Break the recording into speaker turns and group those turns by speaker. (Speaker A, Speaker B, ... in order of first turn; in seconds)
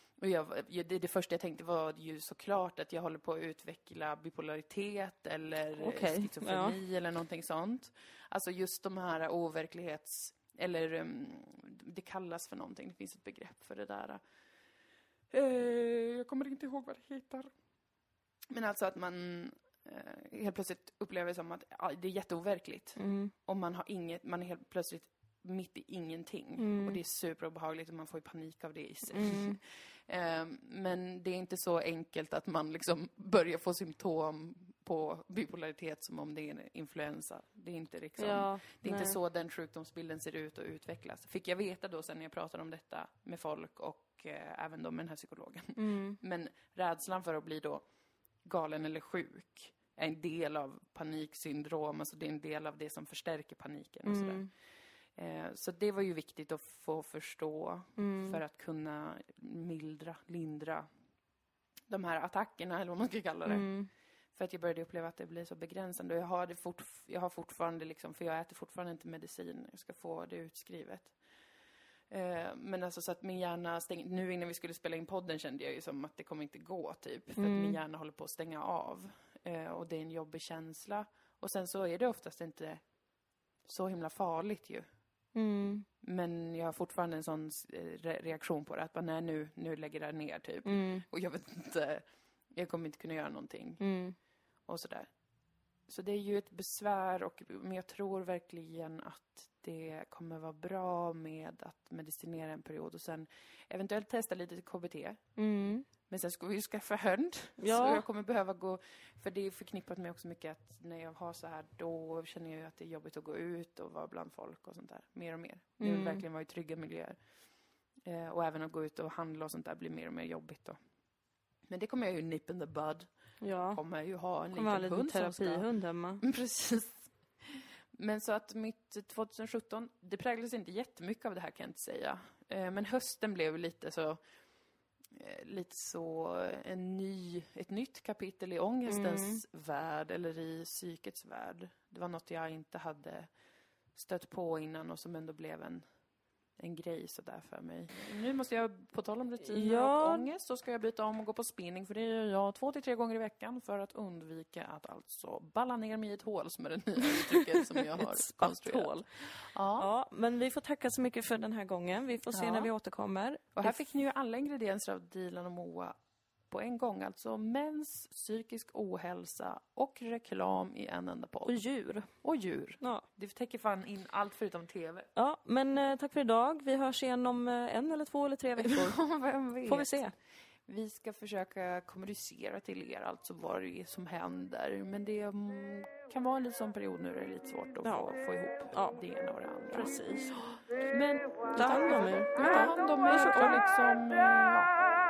Speaker A: 0.2-14.2, 15.3-17.5, 18.5-47.8, 48.5-54.5, 55.2-60.9, 61.9-63.7, 64.3-71.2, 72.1-82.8, 83.7-84.8, 86.0-93.8, 94.7-95.1, 95.9-105.2, 106.1-117.2, 118.1-120.8, 121.7-123.1, 123.7-125.7, 126.2-134.2, 135.1-143.3, 143.9-145.8, 146.6-159.9, 162.3-162.7, 163.6-165.9, 166.5-171.6, 172.2-175.1, 178.6-180.1, 180.7-194.8
Speaker B: 5.8-6.8, 23.0-23.3, 26.6-27.0, 29.1-29.6, 38.2-39.2, 45.8-46.2, 54.0-54.5, 58.0-58.4, 63.5-63.9, 77.4-77.8, 85.3-85.9, 90.7-91.0, 93.8-94.2, 105.4-105.9, 107.6-108.0, 115.8-116.2, 123.4-123.8, 124.5-126.2, 138.9-139.4, 149.5-150.3, 157.0-159.1, 159.8-163.8, 171.5-172.1, 172.8-173.1, 175.2-179.0, 179.7-180.1, 187.8-188.1, 188.7-189.0, 189.7-190.3, 191.5-193.6